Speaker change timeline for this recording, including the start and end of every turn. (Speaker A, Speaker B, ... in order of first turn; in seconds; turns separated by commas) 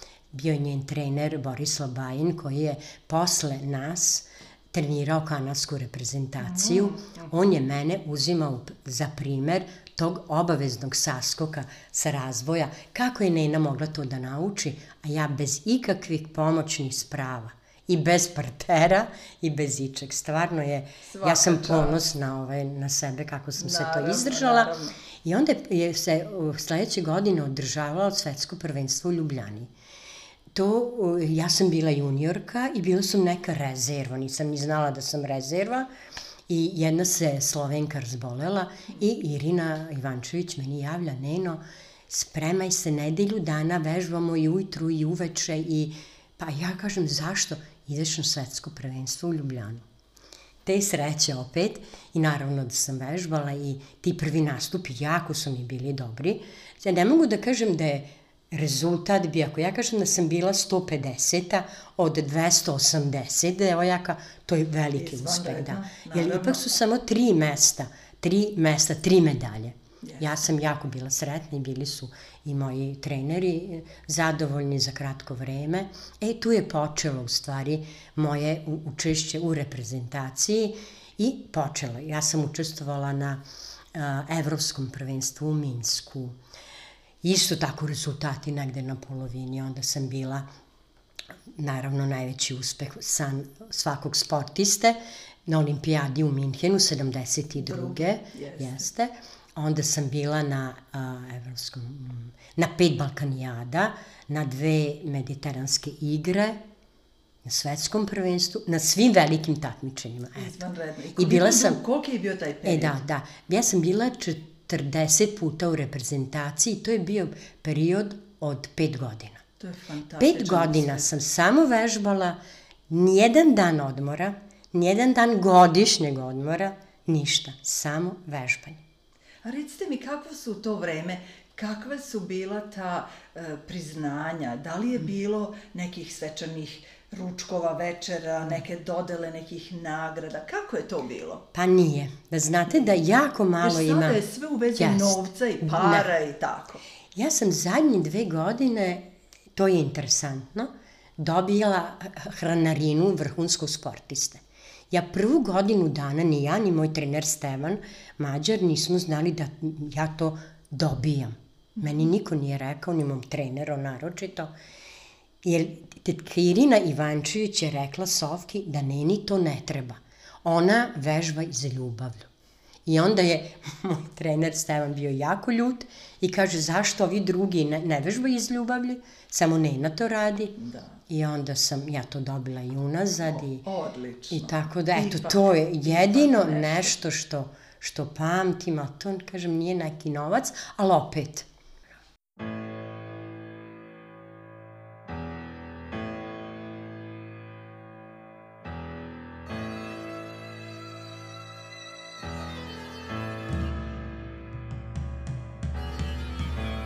Speaker A: 0.3-24.7, Speaker B: 6.4-7.3, Speaker B: 21.1-22.0, Speaker B: 23.6-25.0, Speaker A: 25.2-29.7, Speaker A: 30.5-35.9, Speaker A: 36.5-49.8, Speaker A: 50.6-83.4, Speaker B: 65.0-66.6, Speaker A: 83.9-86.4, Speaker A: 87.2-90.4, Speaker A: 91.5-106.6, Speaker B: 97.6-98.8, Speaker A: 107.4-110.6, Speaker B: 110.4-113.0, Speaker A: 111.2-111.8, Speaker A: 112.6-119.4, Speaker B: 119.6-121.0, Speaker A: 120.2-122.4, Speaker A: 122.9-128.8, Speaker B: 129.4-141.4, Speaker A: 141.5-144.2, Speaker B: 143.6-146.8, Speaker A: 144.8-146.1, Speaker A: 147.1-164.5, Speaker A: 165.4-172.3, Speaker A: 172.8-180.5, Speaker B: 180.6-181.0, Speaker A: 181.1-183.6, Speaker B: 183.2-186.9, Speaker A: 184.3-191.5